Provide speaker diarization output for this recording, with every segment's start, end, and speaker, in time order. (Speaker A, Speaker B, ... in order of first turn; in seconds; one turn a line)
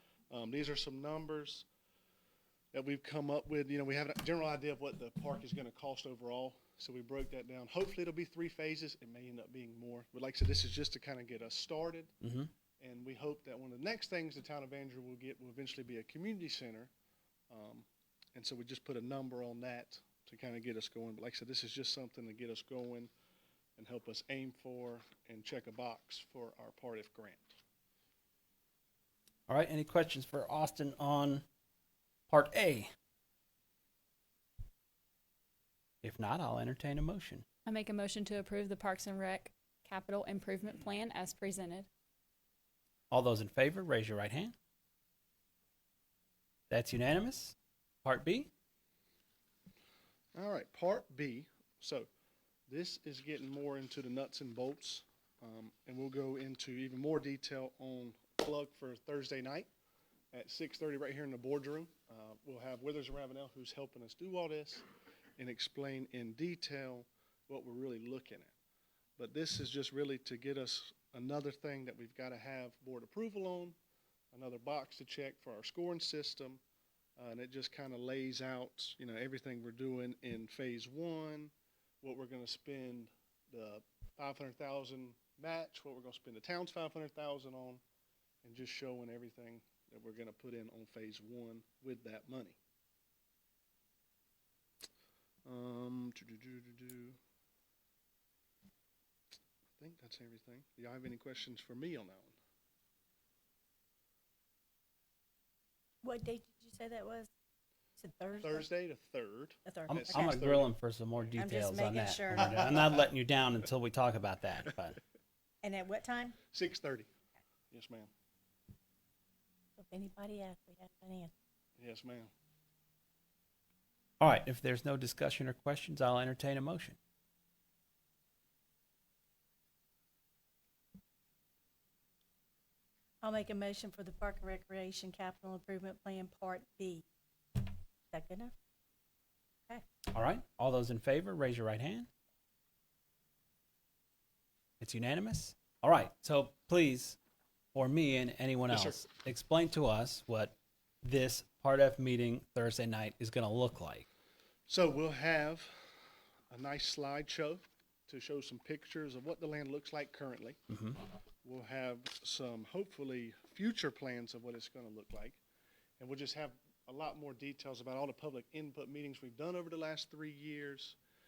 Speaker A: 0.3-1.6
Speaker A: 2.7-12.1
Speaker B: 12.2-12.5
Speaker A: 12.8-16.9
Speaker A: 17.5-23.1
Speaker A: 23.8-27.6
Speaker B: 29.5-31.4
Speaker B: 32.3-32.9
Speaker B: 36.0-37.4
Speaker C: 37.6-41.9
Speaker B: 43.1-44.5
Speaker B: 46.7-48.5
Speaker A: 50.3-52.1
Speaker A: 52.7-59.7
Speaker A: 60.3-64.8
Speaker A: 65.4-68.5
Speaker A: 69.2-73.8
Speaker A: 74.3-76.6
Speaker A: 77.2-87.8
Speaker A: 88.4-92.6
Speaker A: 95.4-97.2
Speaker A: 99.8-102.3
Speaker D: 106.0-107.3
Speaker D: 108.0-108.7
Speaker A: 108.4-111.4
Speaker D: 109.7-110.3
Speaker B: 109.9-115.0
Speaker D: 111.4-112.7
Speaker D: 115.6-116.3
Speaker A: 116.4-117.1
Speaker A: 117.7-118.1
Speaker D: 119.8-121.3
Speaker A: 121.8-122.3
Speaker B: 124.2-127.0
Speaker D: 133.2-137.0
Speaker D: 137.6-138.5
Speaker B: 140.1-142.1
Speaker B: 144.8-147.2
Speaker B: 147.7-154.1
Speaker A: 148.7-149.0
Speaker A: 154.7-155.7
Speaker A: 156.5-160.6
Speaker A: 161.4-165.4
Speaker A: 166.0-170.9